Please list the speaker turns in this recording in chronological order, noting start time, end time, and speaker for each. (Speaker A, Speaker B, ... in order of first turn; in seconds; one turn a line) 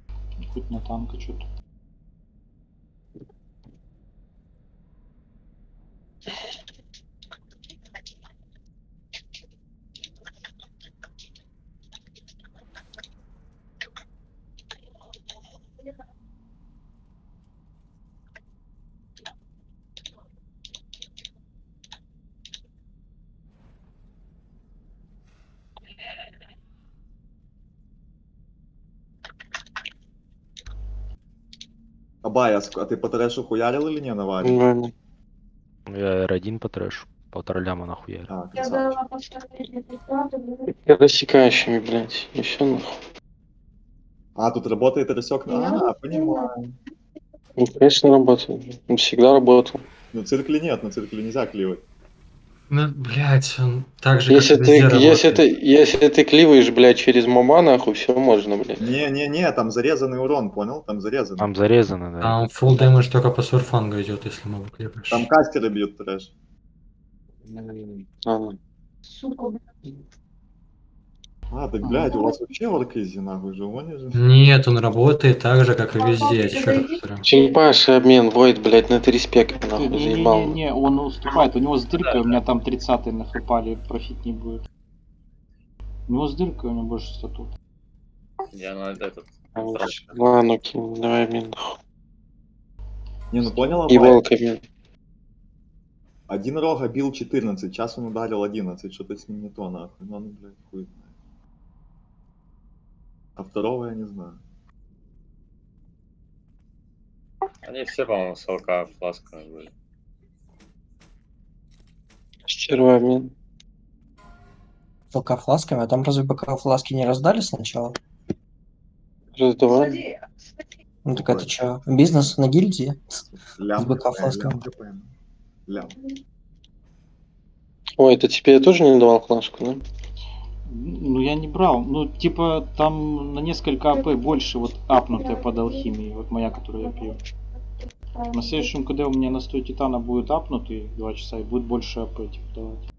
Speaker A: 0.5-1.5
Speaker B: 32.2-34.6
Speaker C: 34.4-34.9
Speaker D: 35.9-38.3
Speaker B: 38.3-39.0
Speaker E: 38.5-40.7
Speaker C: 40.7-43.0
Speaker B: 44.4-46.7
Speaker E: 45.5-46.5
Speaker C: 47.6-49.8
Speaker B: 50.1-51.8
Speaker F: 52.7-55.4
Speaker C: 54.3-58.8
Speaker B: 58.8-61.5
Speaker D: 61.4-63.0
Speaker F: 62.2-65.3
Speaker B: 65.1-66.3
Speaker C: 68.2-68.6
Speaker E: 69.1-69.6
Speaker B: 71.5-74.2
Speaker A: 71.8-72.2
Speaker E: 72.1-72.4
Speaker F: 74.1-77.2
Speaker E: 75.9-77.5
Speaker C: 77.2-80.6
Speaker A: 79.6-84.6
Speaker A: 86.1-87.5
Speaker G: 88.5-90.2
Speaker C: 89.6-91.8
Speaker B: 93.3-94.2
Speaker C: 93.9-94.6
Speaker B: 96.3-101.1
Speaker B: 103.4-104.4
Speaker G: 107.6-109.7
Speaker C: 112.5-113.3
Speaker H: 115.1-118.0
Speaker C: 119.4-120.0
Speaker E: 119.7-120.7
Speaker H: 121.0-123.0
Speaker B: 121.1-121.5
Speaker B: 123.6-125.1
Speaker H: 123.8-124.6
Speaker B: 125.7-126.0
Speaker C: 128.0-129.8
Speaker A: 130.7-137.2
Speaker E: 133.9-135.9
Speaker E: 136.8-137.2
Speaker E: 137.8-138.7
Speaker A: 138.3-142.8